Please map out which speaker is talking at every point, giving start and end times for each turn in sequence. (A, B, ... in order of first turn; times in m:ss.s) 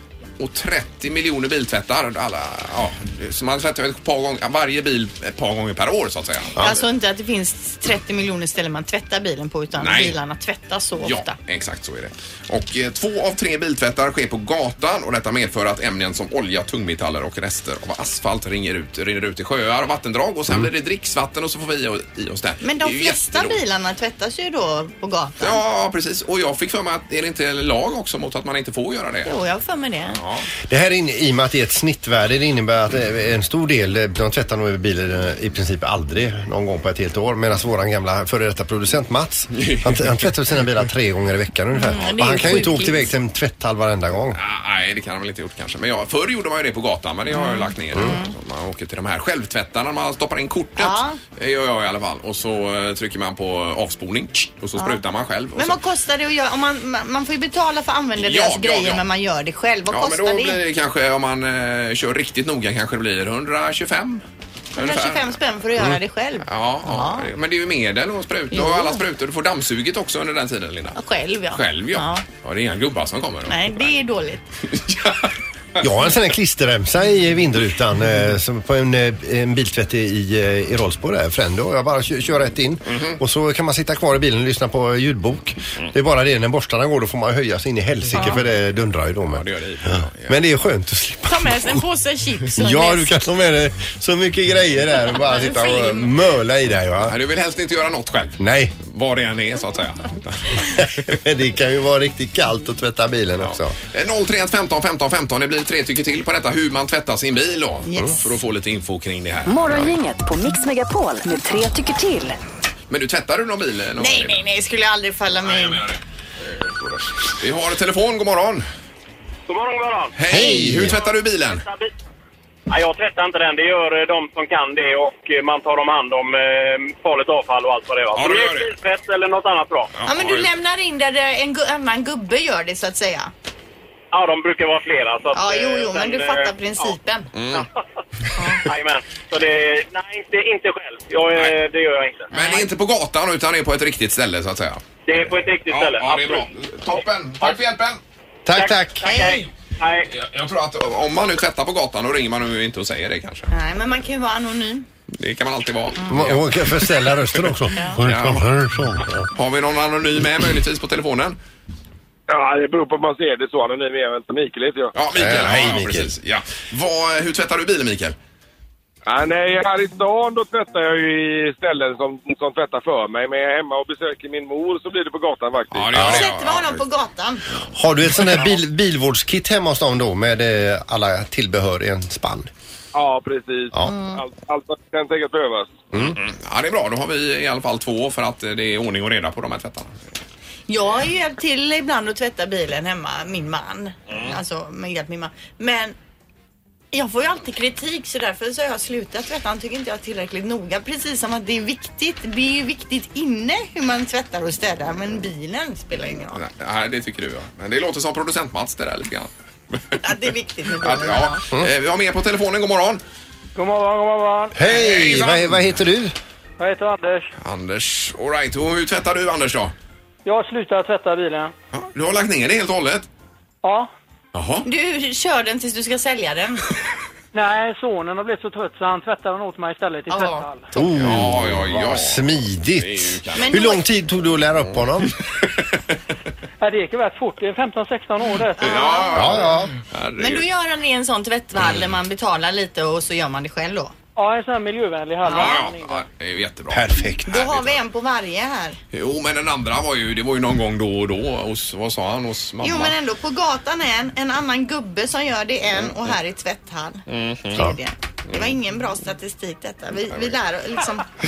0:00.4-0:06.8 A
0:06.6-0:11.4 B
0:09.8-0:10.2 A
0:11.0-0:23.6 A
0:22.6-0:25.6 B
0:25.4-0:29.3 A
0:29.2-0:30.2 B
0:30.1-0:30.5 A
0:30.7-0:44.4 C
0:39.5-0:40.1 A
0:41.7-0:43.1 B
0:44.3-0:55.8 A
0:47.3-0:48.3 B
0:50.8-0:51.2 B
0:55.5-1:00.6 B
0:58.2-0:59.0 A
0:59.9-1:04.2 A
1:04.8-1:07.3 B
1:04.8-1:11.0 A
1:08.5-1:09.0 B
1:10.9-1:12.2 B
1:11.5-1:13.9 A
1:13.5-1:14.4 B
1:14.6-1:15.8 A
1:15.8-1:31.8 C
1:22.9-1:23.2 A
1:29.3-1:30.4 A
1:31.3-1:33.1 B
1:32.6-1:37.1 C
1:35.1-1:36.1 B
1:37.0-1:41.1 A
1:38.4-1:38.8 C
1:40.8-1:43.7 C
1:43.4-1:49.8 A
1:47.8-1:48.2 B
1:49.4-1:52.4 D
1:52.9-1:54.4 A
1:54.0-1:55.8 B
1:55.4-1:58.7 A
1:59.5-2:00.2 E
2:00.2-2:01.6 A
2:00.3-2:01.0 C
2:00.8-2:01.9 E
2:02.7-2:09.9 E
2:08.1-2:08.7 A
2:10.0-2:10.5 A
2:10.1-2:13.3 B
2:14.1-2:16.9 E
2:15.3-2:17.6 B
2:17.3-2:17.6 A
2:18.2-2:18.7 A
2:18.4-2:18.6 B
2:18.5-2:22.3 E
2:22.3-2:28.0 A
2:22.3-2:22.6 B
2:25.1-2:27.6 E
2:28.4-2:29.1 C
2:28.5-2:30.1 E
2:29.0-2:29.4 B
2:30.0-2:33.5 A
2:33.5-2:34.9 B
2:35.1-2:38.4 A
2:36.1-2:39.3 C
2:37.7-2:38.0 B
2:39.3-2:41.4 A
2:42.3-2:44.9 F
2:44.9-2:48.2 A
2:45.1-2:46.1 C
2:49.0-2:55.9 F
2:55.7-2:56.8 A
2:55.9-2:57.4 B
2:56.0-2:56.2 C
2:57.7-3:02.5 C
3:02.9-3:05.8 F
3:03.8-3:04.2 B
3:06.0-3:10.0 A
3:10.7-3:15.9 B
3:16.9-3:26.4 B
3:26.3-3:30.0 A
3:30.0-3:31.4 B
3:30.8-3:33.0 A
3:33.5-3:34.5 G
3:34.5-3:36.1 C
3:34.6-3:35.6 A
3:36.6-3:37.3 G
3:37.4-3:39.7 A
3:40.2-3:41.5 G
3:41.7-3:43.0 A
3:43.6-3:43.9 G
3:44.3-3:44.6 A
3:44.6-3:46.6 B
3:47.3-3:50.7 G
3:50.1-3:50.5 B
3:50.7-3:55.1 C
3:50.8-3:53.8 A
3:53.4-3:53.8 B
3:55.0-3:55.4 A
3:56.6-3:58.6 G
3:58.6-3:59.4 B
3:58.6-4:00.5 A
3:59.1-3:59.7 C
4:00.2-4:03.9 B
4:04.2-4:06.0 G
4:05.2-4:05.6 B
4:05.2-4:07.8 A
4:06.7-4:07.5 C
4:07.3-4:08.8 B
4:08.9-4:13.0 A
4:12.6-4:21.1 B
4:17.1-4:17.6 A